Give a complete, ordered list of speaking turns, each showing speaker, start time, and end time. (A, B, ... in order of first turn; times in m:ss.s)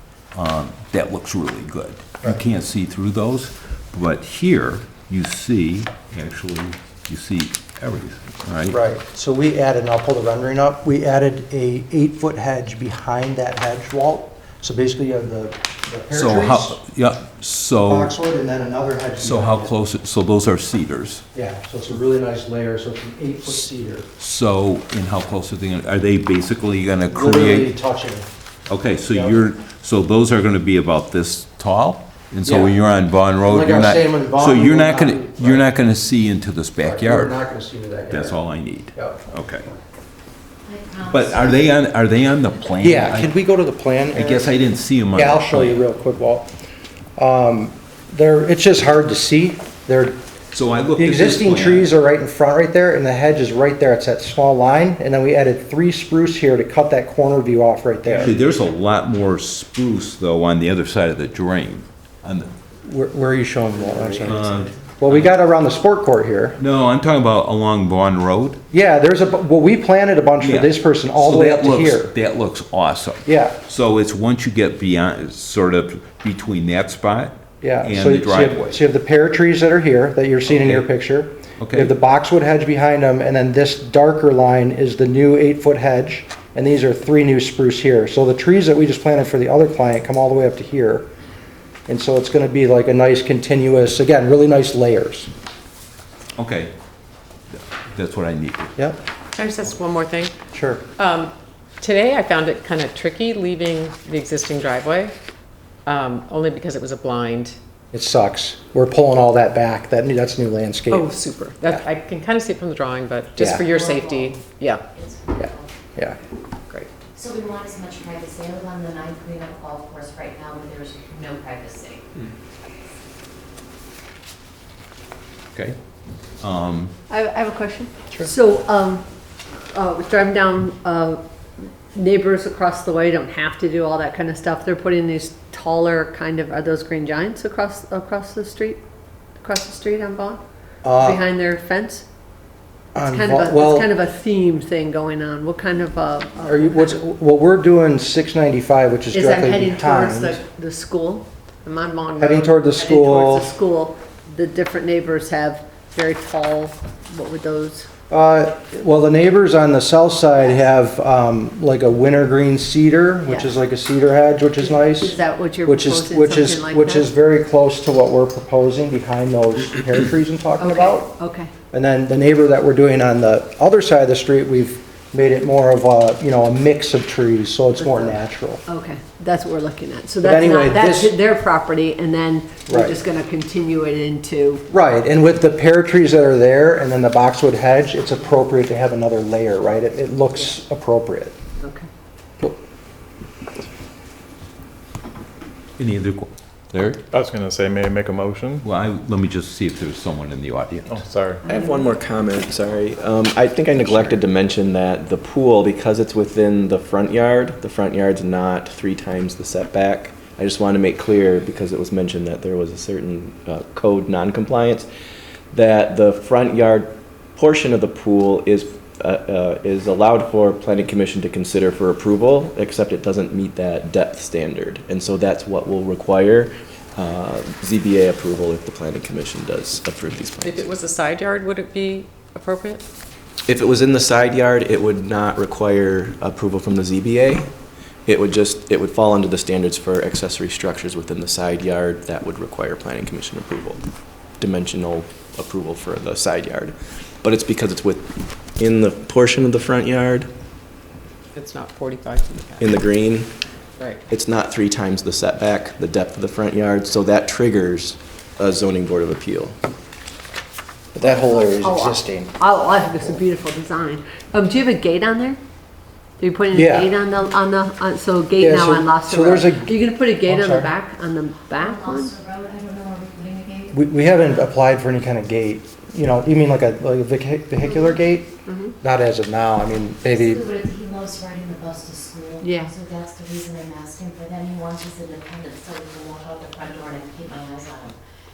0:00.3-0:08.8 A
0:08.7-0:16.8 B
0:16.1-0:18.1 A
0:17.9-0:19.7 B
0:19.2-0:21.2 A
0:21.3-0:24.1 B
0:24.2-0:27.7 A
0:27.1-0:28.2 B
0:28.7-0:37.4 A
0:29.1-0:29.4 B
0:32.4-0:32.8 B
0:33.5-0:35.7 B
0:36.8-0:38.4 B
0:38.1-0:39.7 A
0:39.0-0:39.2 B
0:40.6-0:41.8 C
0:41.1-0:43.3 A
0:42.8-0:44.5 B
0:44.1-0:45.8 A
0:45.1-0:46.5 B
0:47.2-0:50.2 B
0:50.5-0:51.9 A
0:51.0-0:58.3 B
0:58.1-1:02.5 A
1:02.8-1:06.6 B
1:04.2-1:05.3 A
1:06.6-1:08.6 A
1:08.7-1:12.1 B
1:10.4-1:18.8 A
1:13.2-1:13.6 B
1:17.6-1:31.1 B
1:20.5-1:20.8 A
1:21.6-1:21.9 A
1:31.9-1:35.3 B
1:36.4-1:36.7 A
1:37.6-1:38.7 A
1:39.3-1:40.3 D
1:40.5-1:40.8 B
1:41.0-1:45.1 D
1:45.8-1:47.6 D
1:47.9-1:51.1 B
1:50.9-1:54.8 D
1:53.4-1:53.7 B
1:53.7-1:54.4 C
1:54.9-1:55.9 C
1:55.4-1:56.2 B
1:57.1-2:02.1 C
2:06.4-2:06.9 A
2:07.1-2:09.0 E
2:09.7-2:11.2 E
2:11.9-2:18.8 E
2:19.4-2:20.4 E
2:20.8-2:21.2 B
2:20.9-2:22.0 E
2:22.9-2:23.9 B
2:23.1-2:27.0 E
2:26.4-2:30.4 B
2:29.1-2:37.9 E
2:32.2-2:33.5 B
2:38.1-2:51.1 B
2:43.2-2:43.5 E
2:44.6-2:47.1 E
2:50.6-2:51.5 E
2:51.7-2:58.6 B
2:57.8-3:04.6 E
3:00.2-3:01.1 B
3:02.7-3:03.0 B
3:04.7-3:11.3 B
3:11.6-3:11.9 E
3:15.8-3:17.0 A
3:17.1-3:18.6 F
3:18.6-3:21.0 A
3:20.9-3:21.5 F
3:21.5-3:34.9 G
3:35.5-3:50.6 G
3:50.4-3:52.8 D
3:53.5-3:57.5 G
3:58.0-4:03.8 G
4:04.4-4:10.3 G
4:11.3-4:12.7 D
4:12.6-4:13.3 G
4:14.1-4:19.6 G
4:20.9-4:23.2 B
4:21.0-4:25.4 E
4:26.2-4:32.1 E
4:26.5-4:26.9 B
4:28.4-4:30.7 B
4:31.5-4:33.8 C
4:33.7-4:40.4 B
4:38.4-4:38.8 E
4:40.1-4:48.0 C
4:42.4-4:42.7 E